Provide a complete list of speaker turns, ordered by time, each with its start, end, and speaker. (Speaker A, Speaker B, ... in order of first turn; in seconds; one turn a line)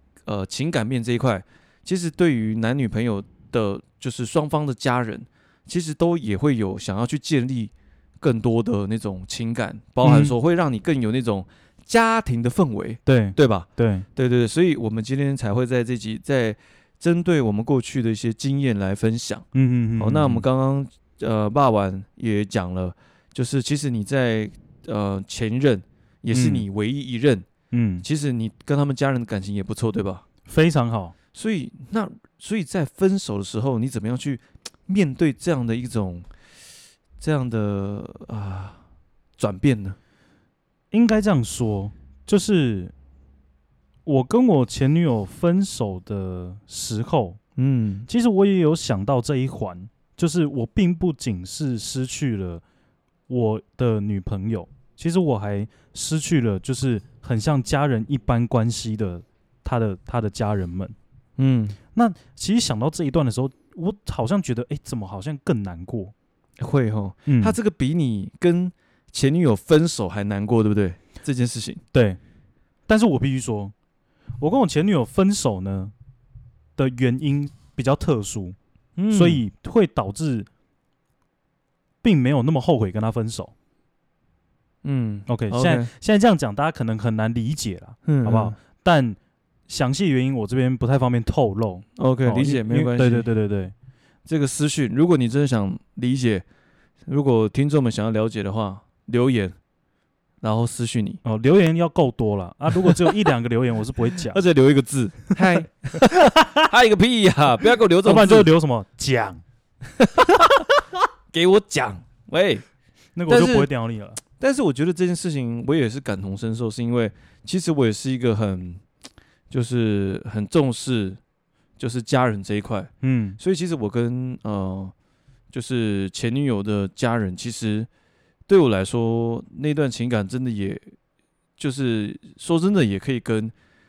Speaker A: 0.3-19.5
Speaker B: 10.0-10.3
Speaker B: 13.1-14.1
Speaker B: 19.5-20.4
Speaker A: 20.0-27.5
Speaker B: 26.3-26.7
Speaker B: 27.7-28.1
Speaker A: 28.0-30.2
Speaker B: 30.5-31.1
Speaker A: 31.3-36.3
Speaker A: 37.2-38.8
Speaker A: 39.4-40.0
Speaker B: 40.9-42.9
Speaker B: 44.0-47.4
Speaker A: 47.6-48.1
Speaker B: 48.1-52.6
Speaker B: 53.3-61.0
Speaker A: 61.4-61.8
Speaker B: 62.0-66.1
Speaker A: 66.6-71.8
Speaker B: 67.3-67.6
Speaker B: 71.9-72.2
Speaker B: 72.9-73.7
Speaker B: 74.4-75.9
Speaker B: 76.8-78.6
Speaker A: 79.0-79.4
Speaker B: 79.1-80.5
Speaker B: 82.0-83.5
Speaker A: 84.8-85.9
Speaker B: 85.3-89.2
Speaker A: 88.1-88.6
Speaker B: 89.7-93.7
Speaker A: 92.0-93.3
Speaker A: 94.3-96.5
Speaker A: 97.1-99.6
Speaker A: 100.4-101.2
Speaker B: 101.2-104.4
Speaker A: 102.8-103.1
Speaker A: 104.3-108.5
Speaker B: 106.3-106.7
Speaker B: 108.0-109.4
Speaker A: 110.0-110.6
Speaker A: 111.3-112.6
Speaker B: 113.2-114.2
Speaker A: 113.3-113.7
Speaker A: 114.4-118.8
Speaker A: 119.5-121.2
Speaker A: 121.8-124.9
Speaker B: 123.0-123.4
Speaker A: 125.5-127.9
Speaker A: 128.5-130.9
Speaker A: 131.6-133.5